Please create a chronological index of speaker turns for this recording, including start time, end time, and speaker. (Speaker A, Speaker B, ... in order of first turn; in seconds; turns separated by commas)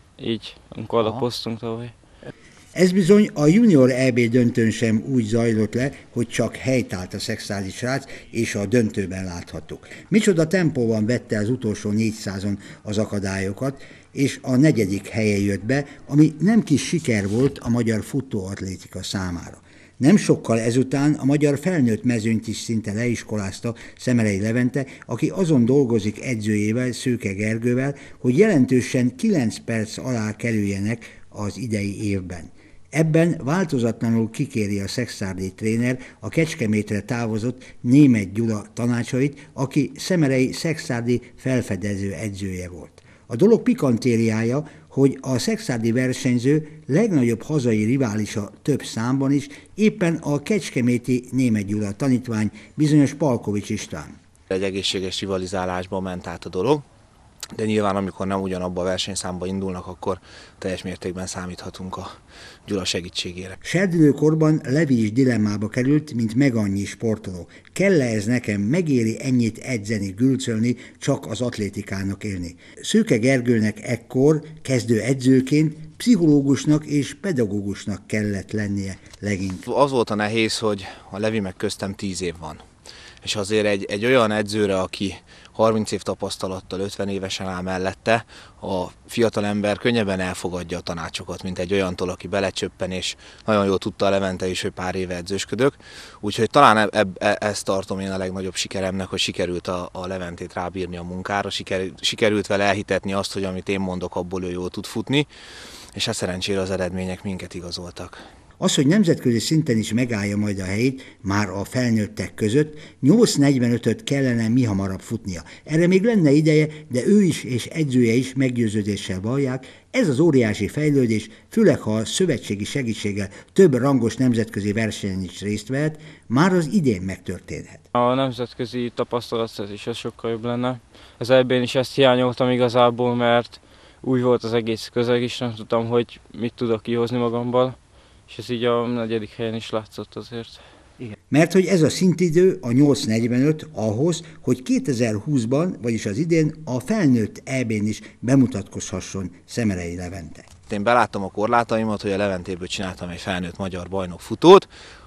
Speaker A: 0.2-1.9, Speaker B: 2.8-54.2, Speaker C: 54.5-56.8, Speaker C: 57.6-62.1, Speaker C: 62.7-63.6, Speaker B: 63.6-79.7, Speaker C: 79.7-82.6, Speaker C: 83.2-105.3, Speaker C: 106.0-108.2, Speaker B: 108.6-127.8, Speaker A: 128.0-137.8, Speaker A: 138.3-140.6, Speaker B: 141.3-150.5, Speaker C: 150.7-154.7